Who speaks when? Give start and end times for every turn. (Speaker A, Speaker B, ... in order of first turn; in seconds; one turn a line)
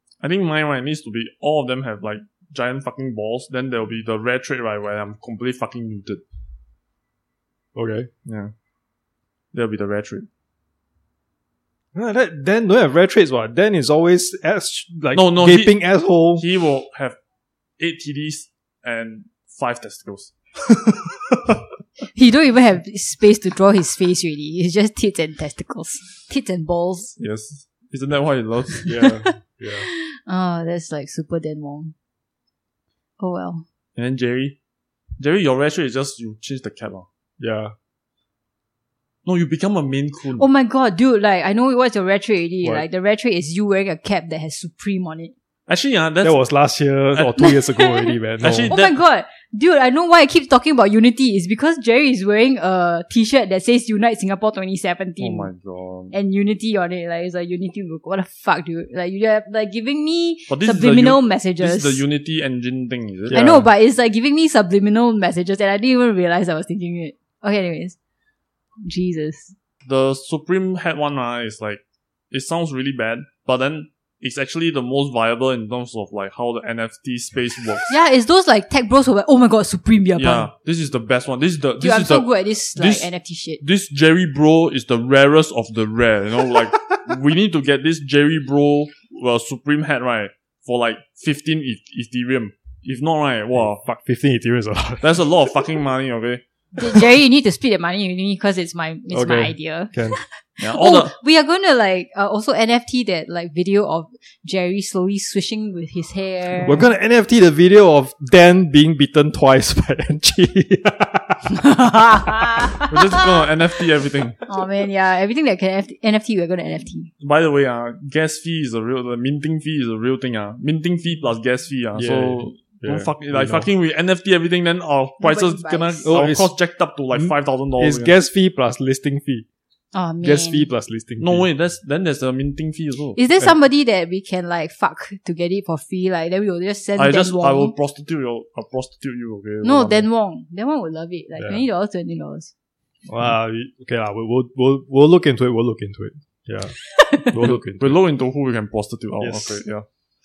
Speaker A: 0.2-6.2
Speaker B: 7.8-8.1
Speaker A: 8.3-8.5
Speaker A: 9.5-10.3
Speaker B: 11.9-16.4
Speaker A: 15.1-17.2
Speaker A: 17.8-21.2
Speaker C: 22.1-27.1
Speaker A: 27.2-29.2
Speaker B: 28.9-29.9
Speaker C: 29.7-31.9
Speaker C: 33.2-33.6
Speaker A: 34.0-34.6
Speaker A: 35.2-37.1
Speaker B: 37.4-37.7
Speaker A: 39.3-40.5
Speaker C: 40.4-45.3
Speaker A: 45.7-46.4
Speaker B: 46.2-48.7
Speaker A: 47.1-47.4
Speaker C: 47.4-48.1
Speaker A: 48.4-49.0
Speaker C: 48.7-55.5
Speaker A: 55.2-56.1
Speaker C: 56.1-62.0
Speaker A: 60.5-63.5
Speaker B: 63.3-63.7
Speaker C: 63.3-68.0
Speaker C: 68.8-69.5
Speaker A: 69.9-77.9
Speaker C: 77.9-80.5
Speaker A: 80.2-93.8
Speaker C: 81.8-83.6
Speaker B: 93.8-95.7
Speaker A: 95.0-96.4
Speaker C: 96.8-106.8
Speaker B: 99.1-100.2
Speaker A: 100.6-101.2
Speaker B: 106.6-111.6
Speaker C: 111.5-113.3
Speaker A: 112.9-114.4
Speaker C: 114.5-117.1
Speaker A: 117.2-128.1
Speaker B: 122.0-123.7
Speaker C: 125.2-126.3
Speaker B: 126.0-126.5
Speaker B: 127.1-129.5
Speaker C: 129.9-130.7
Speaker B: 130.2-131.5
Speaker A: 131.2-133.2
Speaker C: 133.2-137.7
Speaker A: 137.0-140.1
Speaker C: 139.6-142.5
Speaker B: 141.4-141.6
Speaker B: 143.1-148.0
Speaker C: 147.0-147.3
Speaker A: 147.4-149.9
Speaker B: 149.2-149.7